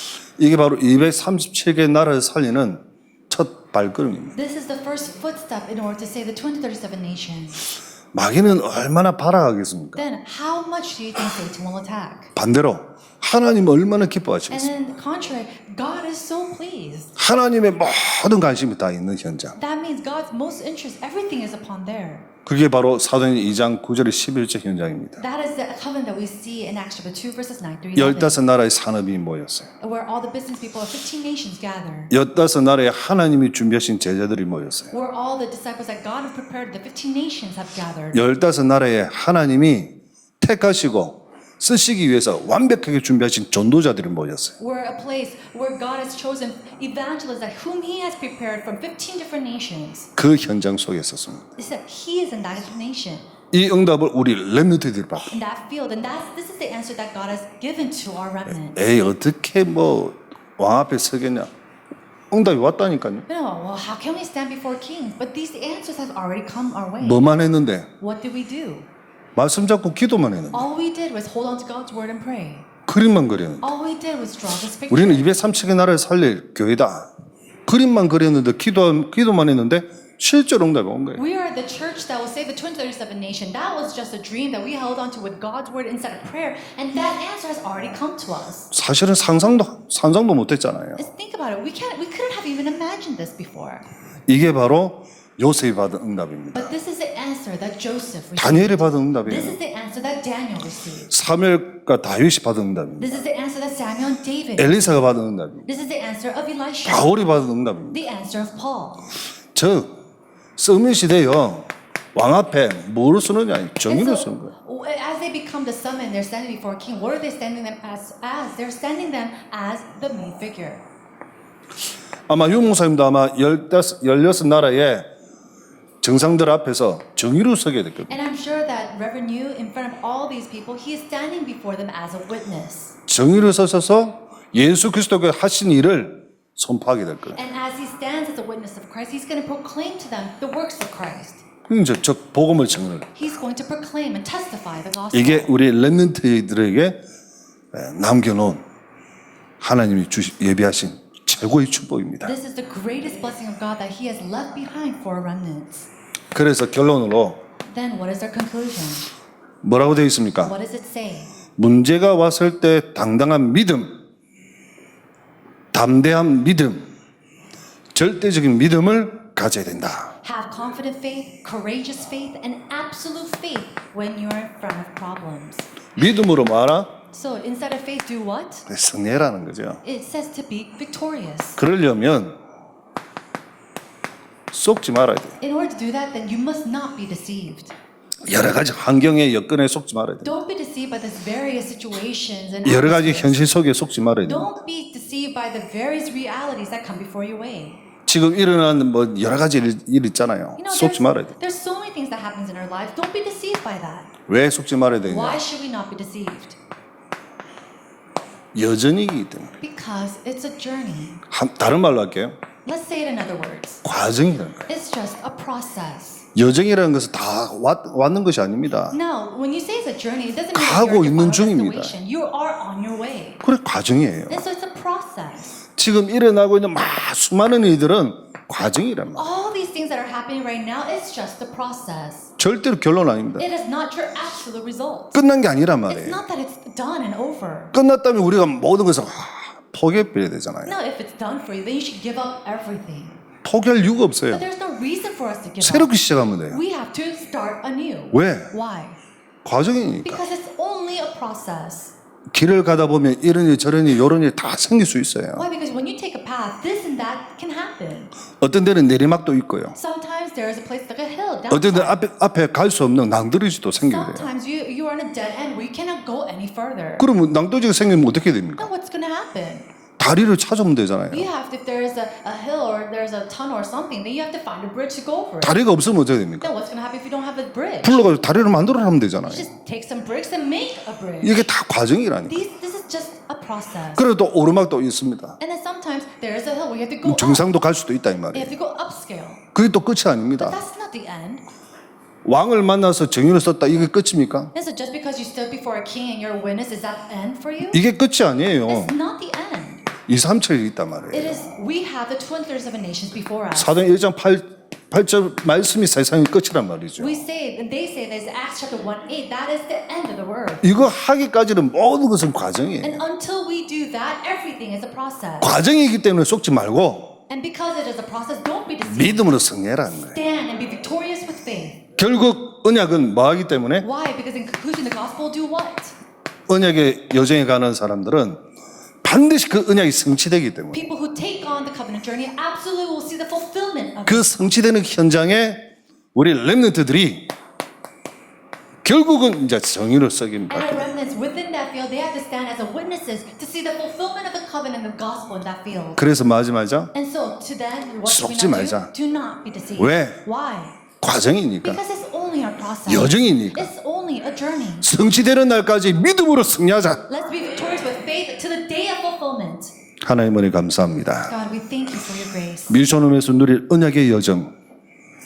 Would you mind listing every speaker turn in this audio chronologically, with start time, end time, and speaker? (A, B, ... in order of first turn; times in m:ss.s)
0:00.4-0:04.4 A
0:04.4-0:07.6 B
0:08.1-0:10.0 A
0:10.0-0:12.3 B
0:12.4-0:14.7 A
0:14.5-0:17.1 B
0:17.2-0:19.6 A
0:19.6-0:22.3 B
0:22.5-0:25.2 A
0:25.2-0:28.4 B
0:28.0-0:29.7 A
0:29.8-0:32.1 B
0:32.1-0:34.9 A
0:34.9-0:38.2 B
0:38.1-0:44.6 A
0:44.6-0:50.1 B
0:50.2-0:51.5 A
0:51.6-0:53.3 B
0:53.5-0:55.3 A
0:55.3-0:58.8 B
0:58.7-1:01.5 A
1:02.3-1:03.3 A
1:03.3-1:07.2 B
1:07.0-1:07.9 A
1:08.0-1:08.9 B
1:09.4-1:10.7 A
1:10.5-1:12.7 B
1:12.9-1:13.7 A
1:13.6-1:15.3 B
1:14.9-1:17.1 A
1:17.7-1:21.2 A
1:21.2-1:28.7 B
1:28.7-1:31.0 A
1:31.0-1:33.9 B
1:34.3-1:36.7 A
1:36.5-1:41.1 B
1:38.4-1:39.6 A
1:41.1-1:43.2 A
1:43.0-1:45.0 B
1:44.6-1:45.7 A
1:45.7-1:47.1 B
1:46.9-1:48.0 A
1:47.9-1:49.1 B
1:49.5-1:50.0 A
1:50.6-1:54.5 A
1:53.9-2:00.8 B
2:02.3-2:05.1 A
2:06.0-2:08.2 A
2:08.1-2:13.0 B
2:13.1-2:17.4 A
2:17.4-2:21.4 B
2:21.7-2:23.2 A
2:23.2-2:25.5 B
2:25.1-2:27.0 A
2:27.7-2:28.6 A
2:29.6-2:32.4 A
2:32.2-2:35.9 B
2:36.3-2:37.4 A
2:37.6-2:39.1 B
2:39.6-2:40.6 A
2:40.4-2:41.3 B
2:41.6-2:44.0 A
2:45.7-2:46.9 A
2:47.9-2:50.2 A
2:50.2-2:55.7 B
2:56.0-2:57.0 A
2:57.1-2:58.7 B
2:58.7-2:59.8 A
2:59.8-3:01.6 B
3:01.6-3:02.4 A
3:04.5-3:05.4 A
3:05.4-3:07.7 B
3:08.3-3:10.3 A
3:10.2-3:13.5 B
3:12.6-3:14.5 A
3:14.3-3:17.8 B
3:18.1-3:21.3 A
3:20.6-3:24.1 B
3:24.3-3:25.4 A
3:25.1-3:26.6 B
3:28.5-3:29.6 A
3:29.6-3:31.2 B
3:31.3-3:32.4 A
3:32.6-3:33.8 B
3:33.8-3:34.7 A
3:34.7-3:36.2 B
3:36.4-3:39.0 A
3:38.9-3:43.4 B
3:40.5-3:42.0 A
3:43.4-3:44.4 A
3:44.3-3:45.6 B
3:45.8-3:49.3 A
3:49.2-3:52.3 B
3:52.4-3:53.5 A
3:53.4-3:55.2 B
3:55.2-3:56.2 A
3:55.9-3:57.7 B
3:57.7-4:00.8 A
4:00.6-4:03.2 B
4:03.4-4:04.4 A
4:04.3-4:05.9 B
4:05.6-4:06.6 A
4:06.5-4:09.0 B
4:08.1-4:08.5 A
4:09.4-4:10.2 A
4:10.0-4:11.9 B
4:12.3-4:15.5 A
4:15.4-4:18.2 B
4:18.4-4:19.8 A
4:19.8-4:22.0 B
4:21.5-4:24.3 A
4:23.9-4:27.1 B
4:27.0-4:28.7 A
4:28.6-4:29.7 B
4:30.0-4:31.3 A
4:31.1-4:35.6 B
4:35.4-4:36.5 A
4:36.4-4:38.1 B
4:37.8-4:39.5 A
4:39.3-4:41.5 B
4:41.2-4:42.4 A
4:42.3-4:44.0 B
4:44.0-4:45.4 A
4:45.4-4:47.5 B
4:47.0-4:48.5 A
4:48.3-4:49.4 B
4:49.6-4:50.6 A
4:50.4-4:51.4 B
4:52.2-4:54.5 A
4:54.5-4:57.8 B
4:57.7-4:58.9 A
4:58.7-4:59.9 B
5:00.1-5:01.5 A
5:01.1-5:03.8 B
5:03.6-5:07.2 A
5:07.0-5:10.9 B
5:10.6-5:13.0 A
5:12.8-5:15.5 B
5:15.4-5:17.2 A
5:17.3-5:19.4 B
5:18.9-5:20.2 A
5:20.1-5:21.8 B
5:22.0-5:23.9 A
5:23.8-5:25.9 B
5:26.5-5:28.4 A
5:29.0-5:30.9 A
5:30.7-5:34.5 B
5:34.1-5:37.3 A
5:38.8-5:40.9 A
5:40.5-5:46.0 B
5:46.0-5:46.9 A
5:46.9-5:50.8 B
5:48.1-5:48.9 A
5:49.8-5:50.2 A
5:51.0-5:51.8 A
5:51.6-5:54.9 B
5:52.9-5:53.7 A
5:54.8-5:57.0 A
5:57.1-5:59.7 B
6:00.0-6:01.4 A
6:01.3-6:02.8 B
6:02.7-6:04.5 A